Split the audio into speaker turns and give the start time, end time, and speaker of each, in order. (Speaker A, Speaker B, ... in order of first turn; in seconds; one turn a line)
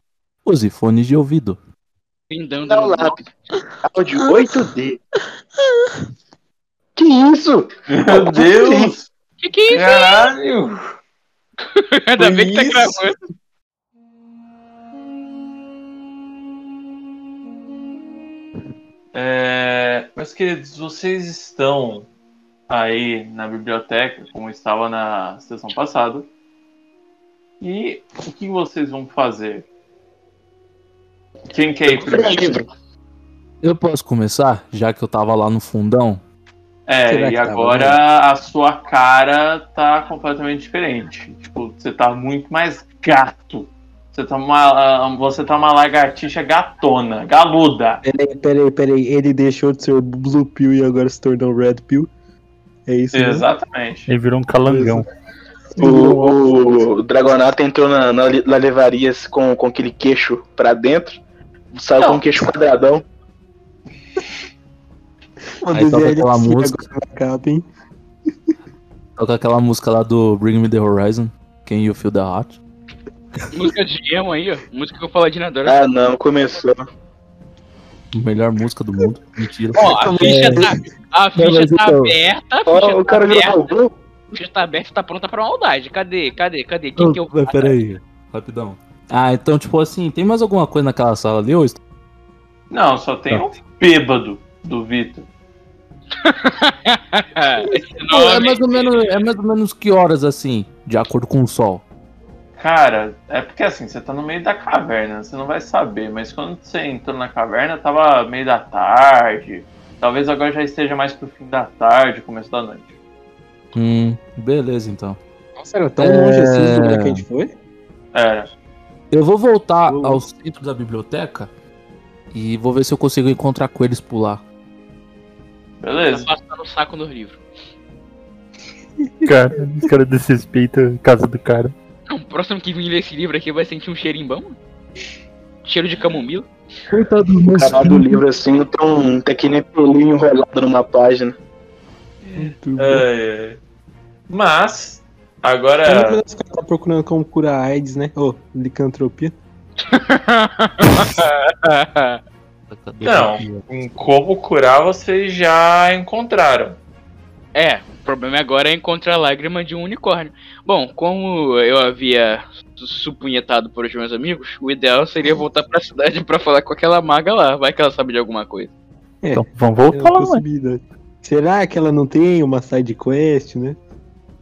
Speaker A: 0.5-1.6
Speaker B: 2.3-3.2
Speaker C: 2.7-3.3
Speaker D: 3.6-4.6
Speaker C: 3.8-5.0
Speaker C: 7.0-8.9
Speaker E: 7.9-9.1
Speaker B: 9.4-10.3
Speaker E: 9.7-10.9
Speaker B: 11.8-13.2
Speaker E: 12.3-13.0
Speaker E: 19.1-22.1
Speaker E: 22.7-26.3
Speaker E: 27.6-29.7
Speaker E: 31.5-32.6
Speaker C: 31.9-32.6
Speaker A: 33.6-36.2
Speaker E: 36.9-48.0
Speaker D: 37.1-38.0
Speaker D: 48.0-52.1
Speaker D: 52.9-53.5
Speaker E: 53.1-54.1
Speaker F: 54.1-55.1
Speaker D: 54.7-55.1
Speaker D: 55.8-56.5
Speaker C: 55.8-61.2
Speaker C: 61.7-63.0
Speaker E: 62.0-62.3
Speaker D: 65.6-67.7
Speaker A: 65.7-66.8
Speaker A: 69.2-72.6
Speaker B: 73.5-75.8
Speaker C: 75.7-76.8
Speaker A: 78.1-80.7
Speaker B: 79.8-83.7
Speaker D: 80.2-80.7
Speaker A: 81.3-82.2
Speaker C: 82.7-83.9
Speaker B: 84.3-87.8
Speaker A: 87.0-91.8
Speaker E: 92.7-95.3
Speaker B: 96.2-99.0
Speaker A: 98.1-101.8
Speaker E: 102.6-112.9
Speaker A: 113.8-115.2
Speaker D: 115.6-117.5
Speaker A: 116.0-117.2
Speaker E: 118.1-118.5
Speaker A: 119.1-121.5
Speaker D: 119.9-120.2
Speaker A: 122.3-124.4
Speaker E: 125.8-126.3
Speaker B: 126.0-127.4
Speaker F: 129.2-131.7
Speaker B: 132.1-134.6
Speaker B: 135.7-136.5
Speaker A: 136.9-138.2
Speaker C: 137.5-141.4
Speaker E: 142.2-143.6
Speaker D: 142.4-143.0
Speaker E: 144.3-146.2
Speaker D: 145.9-149.3
Speaker B: 149.9-152.2
Speaker A: 152.7-154.0
Speaker E: 153.0-156.8
Speaker B: 157.6-168.7
Speaker D: 169.2-173.8
Speaker F: 169.3-170.4